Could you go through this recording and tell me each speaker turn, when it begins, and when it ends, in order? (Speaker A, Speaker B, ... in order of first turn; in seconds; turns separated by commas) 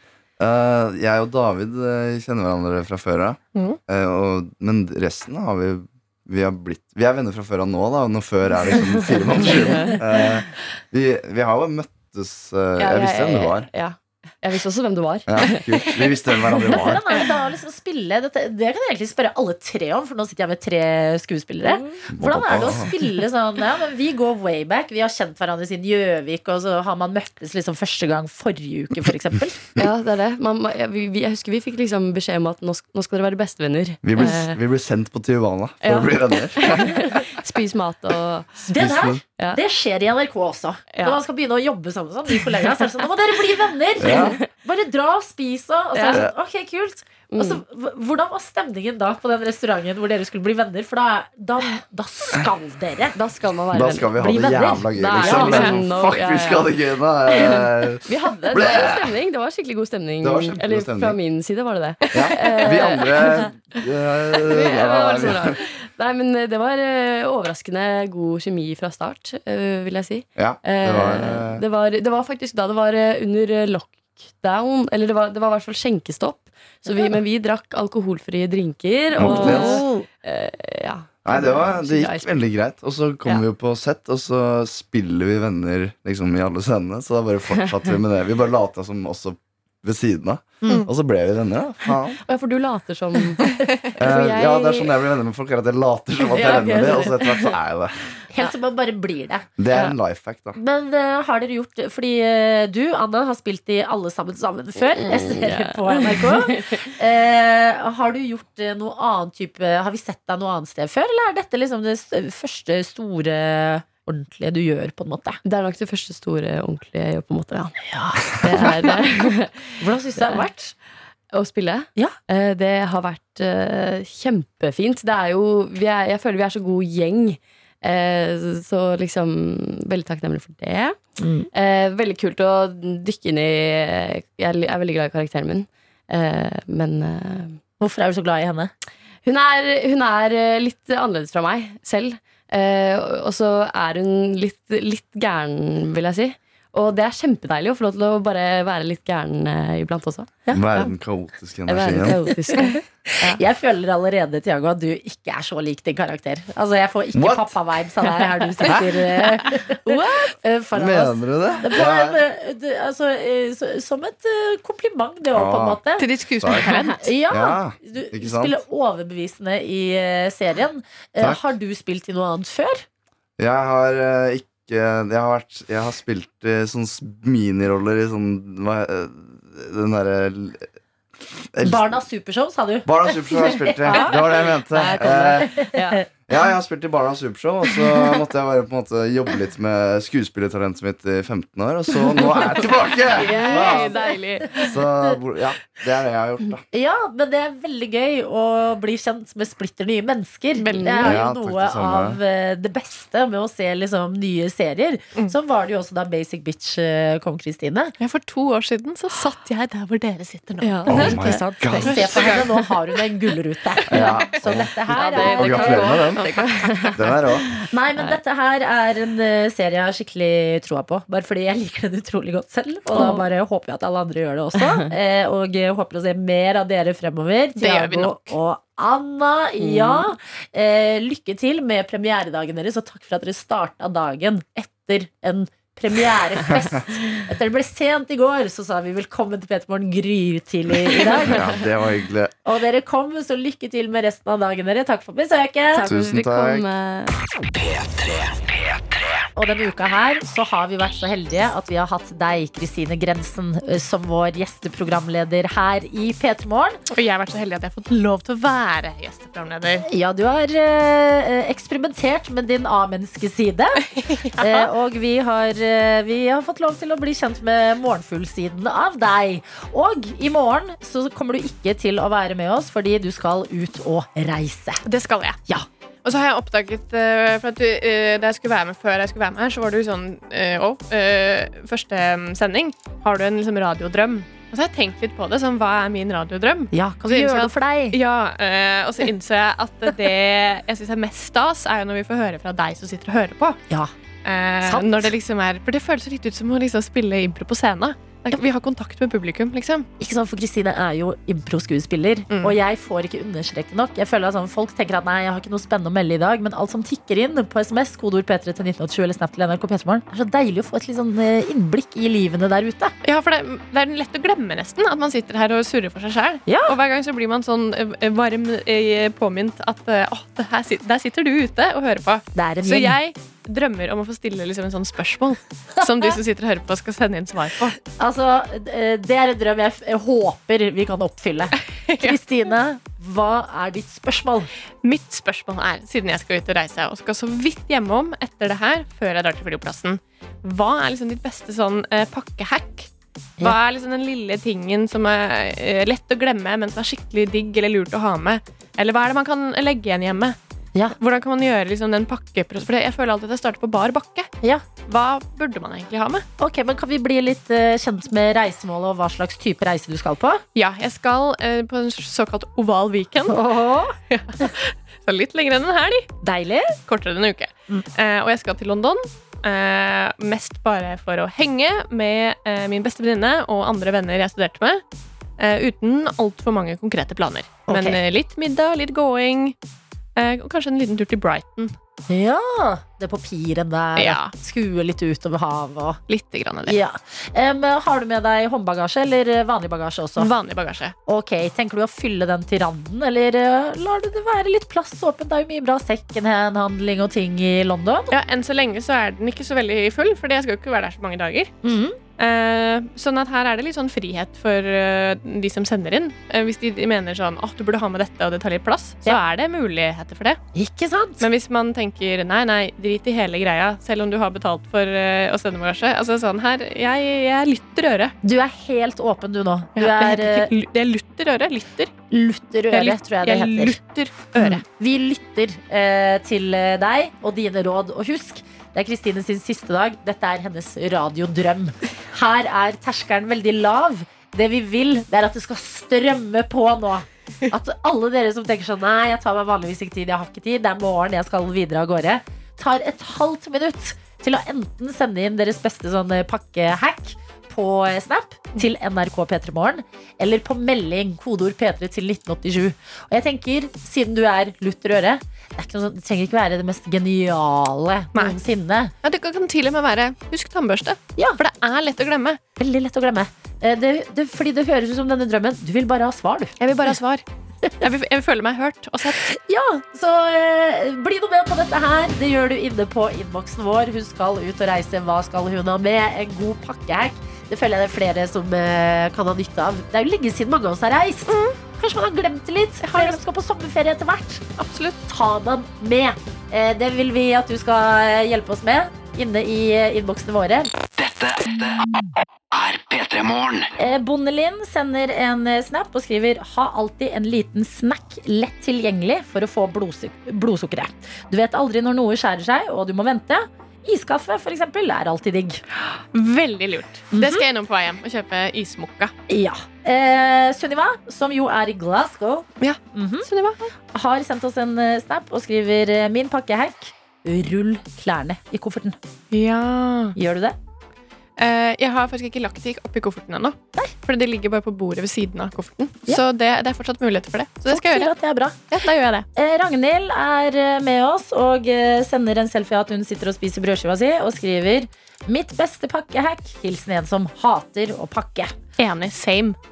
Speaker A: 0.4-13.7, Speaker B: 8.7-10.3, Speaker B: 12.8-16.9, Speaker A: 15.3-17.1, Speaker C: 16.7-29.6, Speaker B: 21.6-22.0, Speaker A: 22.1-22.9, Speaker B: 29.8-34.6, Speaker A: 34.0-37.1, Speaker B: 35.8-38.9, Speaker C: 38.7-53.1, Speaker A: 38.8-39.2, Speaker B: 40.9-41.2, Speaker B: 42.3-42.9, Speaker A: 44.0-44.4, Speaker B: 44.0-44.5, Speaker B: 45.9-46.2, Speaker B: 47.3-47.6, Speaker B: 53.1-56.8, Speaker A: 53.7-59.1, Speaker C: 54.2-55.5, Speaker D: 55.4-55.7, Speaker B: 57.3-63.5, Speaker A: 60.2-61.2, Speaker A: 62.1-65.6, Speaker B: 64.3-82.5, Speaker A: 70.3-71.6, Speaker A: 79.1-79.8, Speaker C: 79.2-80.0, Speaker A: 81.2-92.2, Speaker B: 92.2-95.0, Speaker A: 94.0-98.1, Speaker B: 96.2-97.5, Speaker C: 96.3-97.1, Speaker C: 98.3-99.5, Speaker A: 99.6-100.6, Speaker C: 100.5-115.4, Speaker B: 104.9-106.8, Speaker B: 115.4-117.8, Speaker C: 117.8-119.1, Speaker B: 118.4-120.5, Speaker C: 119.8-120.7, Speaker B: 121.3-131.0, Speaker C: 131.2-131.5, Speaker B: 131.5-137.6, Speaker C: 137.8-138.7, Speaker B: 139.2-150.9, Speaker A: 150.5-152.2, Speaker B: 151.7-153.4, Speaker C: 152.6-166.1, Speaker A: 157.1-157.5, Speaker B: 158.0-159.0, Speaker B: 159.8-160.3, Speaker A: 160.7-162.2, Speaker A: 165.3-165.8, Speaker D: 166.0-167.1, Speaker A: 166.4-166.7, Speaker C: 166.9-172.8, Speaker A: 167.3-168.6, Speaker A: 173.4-180.7, Speaker A: 181.5-182.0, Speaker C: 181.6-184.2, Speaker A: 182.8-194.0, Speaker B: 183.8-186.1, Speaker C: 184.8-185.7, Speaker B: 187.7-188.2, Speaker B: 191.9-194.8, Speaker C: 193.5-193.8, Speaker A: 194.6-196.6, Speaker C: 196.7-207.9, Speaker B: 200.6-201.2, Speaker A: 201.0-202.2, Speaker D: 208.0-211.2, Speaker B: 210.6-211.8, Speaker A: 210.9-212.3, Speaker C: 210.9-215.9, Speaker D: 211.7-212.5, Speaker A: 213.9-216.3, Speaker B: 213.9-214.3, Speaker B: 214.9-218.2, Speaker D: 216.2-216.9, Speaker A: 216.9-217.5, Speaker C: 217.7-241.5, Speaker B: 222.9-223.2, Speaker B: 224.6-224.9, Speaker D: 227.6-228.3, Speaker B: 229.6-230.1, Speaker A: 236.5-236.8, Speaker A: 240.9-242.3, Speaker C: 242.4-245.9, Speaker B: 245.7-247.2, Speaker A: 245.8-246.6, Speaker E: 247.5-249.2, Speaker C: 249.3-256.8, Speaker D: 256.9-259.8, Speaker C: 259.8-263.9, Speaker D: 263.8-264.7, Speaker C: 264.4-274.8, Speaker D: 274.8-275.4, Speaker D: 276.0-293.6, Speaker C: 286.7-288.0, Speaker C: 293.7-293.9, Speaker D: 294.2-299.9, Speaker C: 294.6-295.1, Speaker C: 300.0-312.9, Speaker D: 302.3-302.6, Speaker D: 313.0-327.8, Speaker C: 316.5-316.7, Speaker C: 322.3-323.0, Speaker C: 325.8-326.2, Speaker C: 327.9-334.5, Speaker D: 331.9-332.2, Speaker D: 334.8-342.9, Speaker D: 343.4-350.4, Speaker D: 350.9-354.3, Speaker D: 354.9-356.2, Speaker C: 356.4-360.4, Speaker D: 360.5-363.4, Speaker C: 363.3-364.0, Speaker D: 364.1-366.1, Speaker C: 366.2-366.7, Speaker D: 366.9-374.8, Speaker D: 375.4-379.6, Speaker C: 377.7-378.0, Speaker D: 380.1-381.8, Speaker C: 382.1-386.0, Speaker D: 383.9-384.3, Speaker D: 386.1-386.8, Speaker C: 386.6-390.3, Speaker D: 390.2-390.9, Speaker C: 391.1-398.1, Speaker D: 398.1-401.5, Speaker C: 401.6-402.0, Speaker D: 402.2-410.4, Speaker C: 410.5-411.2, Speaker D: 411.2-418.1, Speaker C: 418.2-420.5, Speaker D: 419.8-421.9, Speaker C: 422.1-423.8, Speaker D: 422.7-424.6, Speaker C: 424.3-458.9, Speaker D: 458.1-458.4, Speaker D: 459.0-462.4, Speaker C: 462.6-467.0, Speaker D: 466.6-467.2, Speaker D: 467.8-469.3, Speaker C: 469.0-484.5, Speaker D: 481.3-481.6, Speaker D: 482.8-483.2, Speaker D: 484.6-485.0, Speaker C: 485.1-490.7, Speaker E: 491.0-491.9, Speaker E: 492.5-493.7, Speaker C: 493.8-505.6, Speaker D: 505.7-509.1, Speaker C: 507.1-507.4, Speaker C: 509.3-513.3, Speaker D: 512.6-513.7, Speaker C: 513.9-519.0, Speaker D: 519.3-520.1, Speaker C: 520.1-520.6, Speaker D: 521.4-528.1, Speaker C: 527.7-528.6, Speaker D: 528.7-529.2, Speaker C: 529.3-538.5, Speaker D: 538.8-539.6